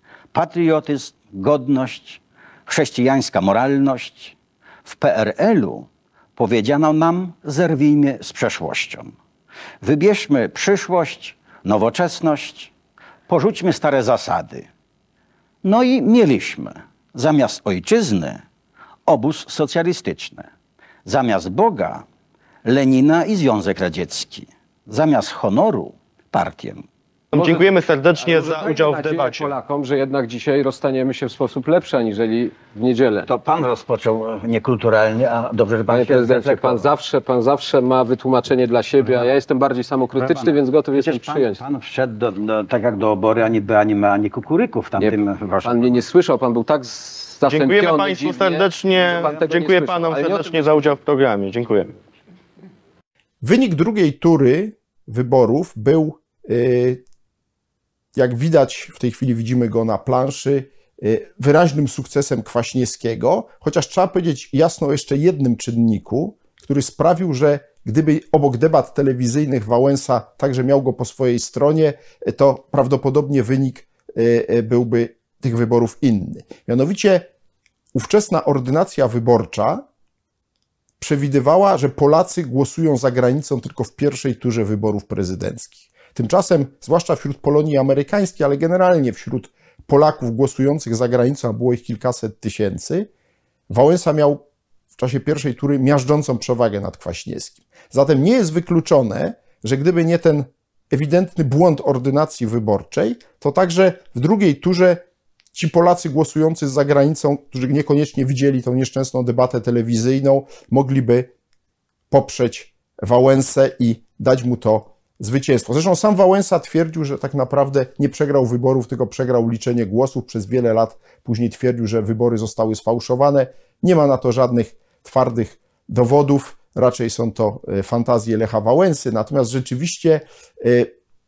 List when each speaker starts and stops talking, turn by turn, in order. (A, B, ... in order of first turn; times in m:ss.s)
0:00.3-0:09.1 A
0:09.8-0:12.7 A
0:13.3-0:14.7 A
0:15.6-0:18.4 A
0:19.1-0:20.5 A
0:21.0-0:22.0 A
0:22.7-0:26.8 A
0:27.3-0:33.3 B
0:27.3-0:29.5 C
0:33.3-0:36.9 A
0:35.9-0:41.6 B
0:39.0-0:39.3 A
0:40.1-0:46.0 A
0:45.0-0:50.8 B
0:47.5-0:51.9 C
0:53.4-0:57.0 D
0:58.1-1:17.3 D
1:17.9-1:19.8 D
1:21.0-1:33.1 D
1:33.7-1:34.4 D
1:35.0-1:45.0 D
1:45.5-1:51.3 D
1:52.1-2:10.9 D